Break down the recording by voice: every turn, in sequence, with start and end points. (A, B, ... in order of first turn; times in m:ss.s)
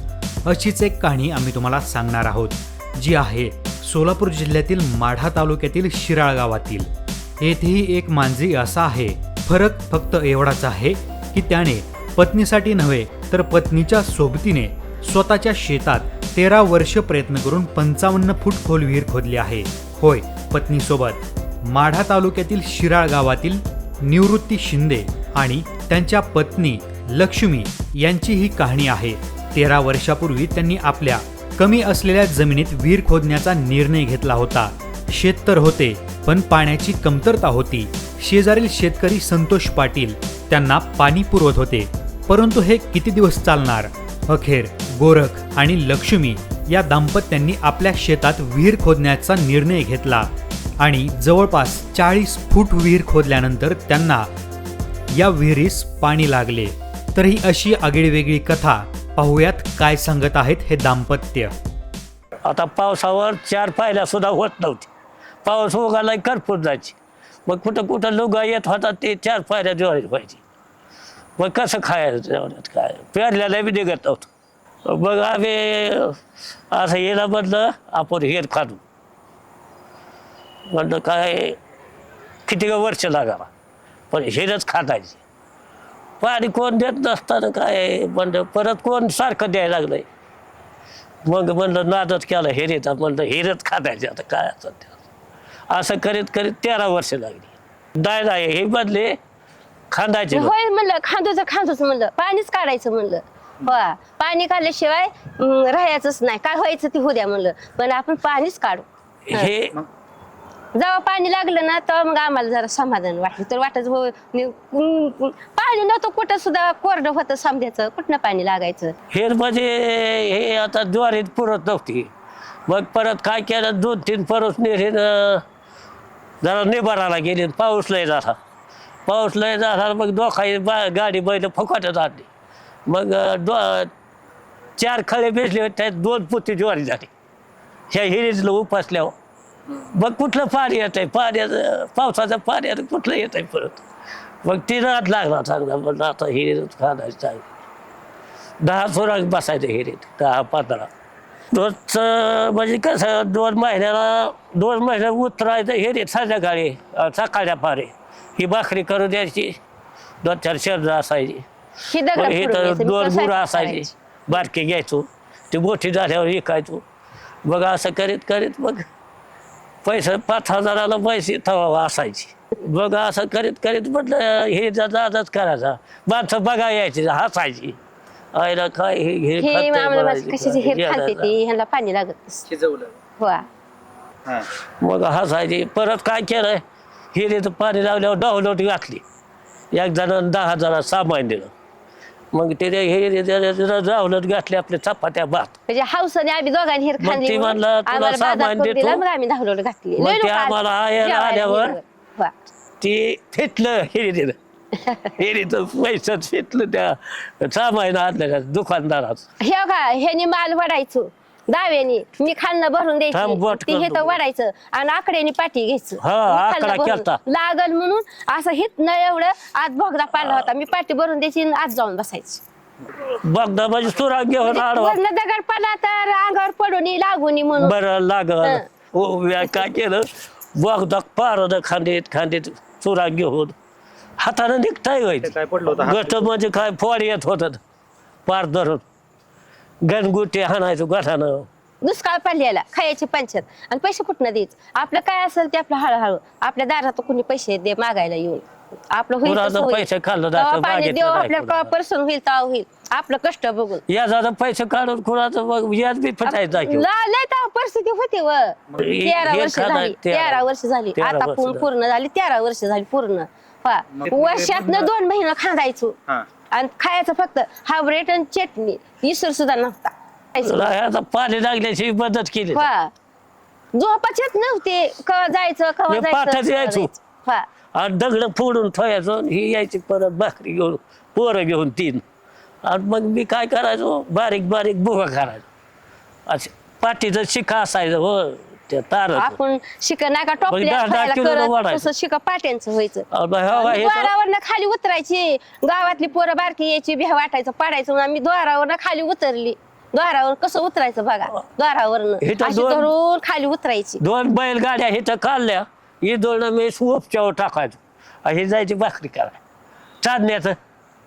0:00.4-0:54.3 A
0:55.1-1:01.5 A
1:02.4-1:04.9 B
1:05.4-1:10.4 B
1:11.4-1:14.3 B
1:14.8-1:18.8 B
1:20.7-1:21.6 B
1:22.4-1:23.5 B
1:24.1-1:25.2 B
1:26.2-1:30.1 B
1:31.2-1:35.0 B
1:35.7-1:39.2 B
1:39.9-1:40.5 B
1:40.3-1:49.5 C
1:49.3-1:49.8 B
1:50.7-1:58.9 C
1:59.1-2:02.1 B
2:02.7-2:05.4 B
2:06.4-2:08.4 B
2:09.0-2:12.3 B
2:12.8-2:13.9 B
2:14.8-2:17.1 B
2:17.9-2:19.1 B
2:19.7-2:23.8 B
2:24.4-2:27.4 B
2:28.6-2:30.9 B
2:31.5-2:39.6 B
2:40.2-2:41.4 B
2:41.9-2:43.9 C
2:42.1-2:46.8 B
2:47.4-2:48.9 B
2:49.8-2:57.8 B
2:58.3-3:01.3 B
2:59.4-3:02.6 C
3:02.5-3:02.9 D
3:03.2-3:03.4 C
3:04.3-3:06.6 B
3:07.1-3:09.0 B
3:09.7-3:11.5 B
3:12.3-3:15.6 B
3:15.7-3:22.3 C
3:17.0-3:19.0 B
3:20.0-3:21.8 B
3:22.8-3:24.4 B
3:24.9-3:29.3 B
3:29.4-3:42.4 C
3:33.1-3:34.2 B
3:36.0-3:37.2 B
3:42.9-3:45.0 B
3:44.4-3:47.8 C
3:47.6-3:53.5 B
3:54.2-3:57.6 B
3:55.3-3:56.2 D
3:58.2-3:58.8 B
3:59.8-4:01.5 B
4:01.8-4:13.8 C
4:09.2-4:11.7 B
4:13.9-4:16.9 B
4:16.2-4:26.0 C
4:18.8-4:20.4 B
4:21.0-4:21.6 B
4:24.0-4:24.8 D
4:26.5-4:30.7 C
4:30.4-4:32.7 B
4:32.5-4:32.9 C
4:33.7-4:37.4 C
4:35.9-4:36.9 B
4:37.7-4:42.0 B
4:42.6-4:45.4 B
4:46.3-4:49.4 B
4:49.1-5:04.0 C
4:50.5-4:51.9 B
4:53.1-4:54.1 B
5:02.2-5:02.9 B
5:04.0-5:09.4 B
5:10.0-5:10.6 B